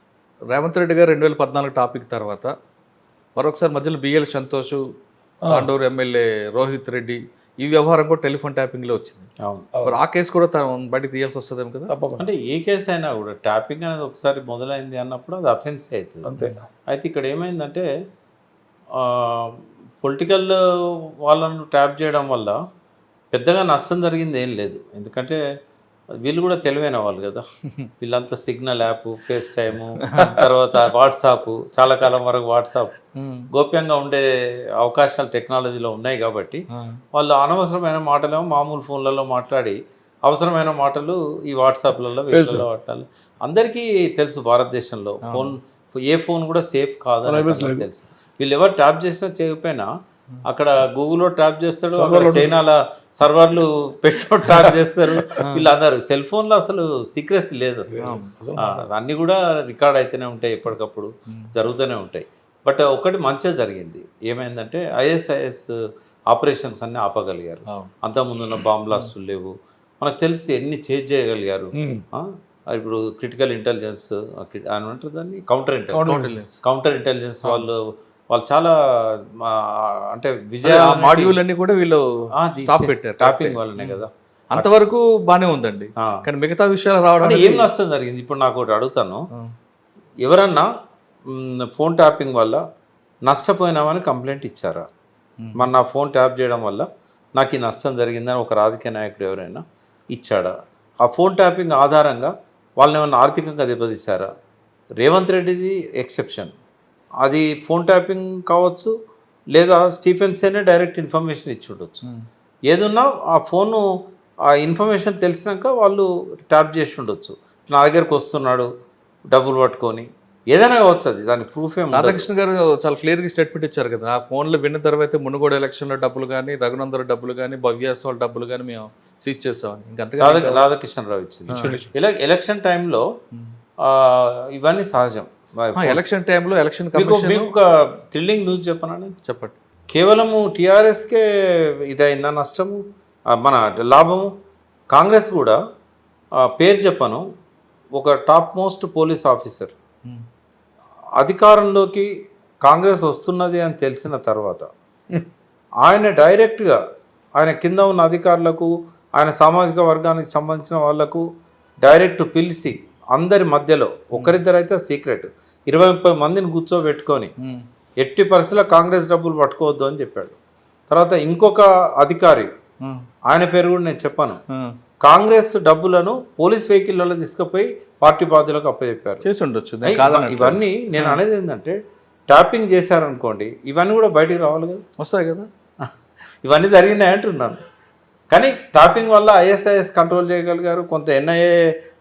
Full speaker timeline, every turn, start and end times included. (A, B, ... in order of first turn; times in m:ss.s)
0:00.5-0:02.5 A
0:03.4-0:04.8 A
0:05.4-0:05.7 B
0:05.5-0:09.3 A
0:09.9-0:11.9 A
0:11.9-0:12.3 B
0:12.2-0:16.3 C
0:16.2-0:16.5 B
0:16.9-0:17.9 C
0:19.0-0:20.6 C
0:21.2-0:22.6 C
0:23.3-0:25.4 C
0:26.2-0:27.4 C
0:28.0-0:32.9 C
0:30.1-0:30.4 A
0:33.2-0:33.5 A
0:33.5-0:34.2 C
0:34.8-0:49.9 C
0:42.3-0:42.7 B
0:45.2-0:45.5 A
0:47.2-0:47.9 B
0:50.4-0:57.9 C
0:51.9-0:52.6 B
0:55.4-0:55.7 A
0:57.9-0:58.9 B
0:58.0-0:58.3 A
0:58.6-1:05.7 C
1:06.3-1:16.1 C
1:11.7-1:12.0 B
1:15.9-1:16.6 A
1:16.0-1:16.4 B
1:16.6-1:17.8 C
1:18.3-1:21.4 C
1:20.6-1:22.0 A
1:22.4-1:24.7 C
1:22.7-1:24.0 A
1:24.5-1:27.7 A
1:27.2-1:29.2 C
1:30.2-1:30.7 C
1:31.3-1:32.6 C
1:33.3-1:34.8 C
1:35.6-1:40.5 C
1:41.0-1:44.3 C
1:45.0-1:46.5 C
1:47.2-1:48.9 C
1:49.5-1:52.0 C
1:52.7-1:53.8 C
1:54.6-1:58.7 C
1:59.3-2:02.3 C
2:01.9-2:10.6 A
2:10.2-2:13.0 C
2:11.5-2:11.8 A
2:11.6-2:11.9 B
2:13.8-2:16.0 C
2:15.8-2:17.5 A
2:17.0-2:19.1 C
2:19.2-2:19.6 A
2:19.9-2:21.2 C
2:21.9-2:22.8 C
2:23.4-2:24.3 C
2:24.9-2:25.6 C
2:26.5-2:27.2 C
2:28.0-2:29.7 C
2:31.2-2:32.1 C
2:32.6-2:34.7 C
2:35.8-2:36.8 C
2:37.4-2:41.2 C
2:41.8-2:47.3 C
2:48.0-2:50.4 C
2:50.9-2:52.5 C
2:53.3-2:54.4 C
2:55.0-2:59.2 C
2:59.2-3:01.2 A
2:59.8-3:01.8 C
3:02.3-3:04.8 C
3:05.0-3:05.5 A
3:06.4-3:07.6 C
3:08.3-3:11.5 C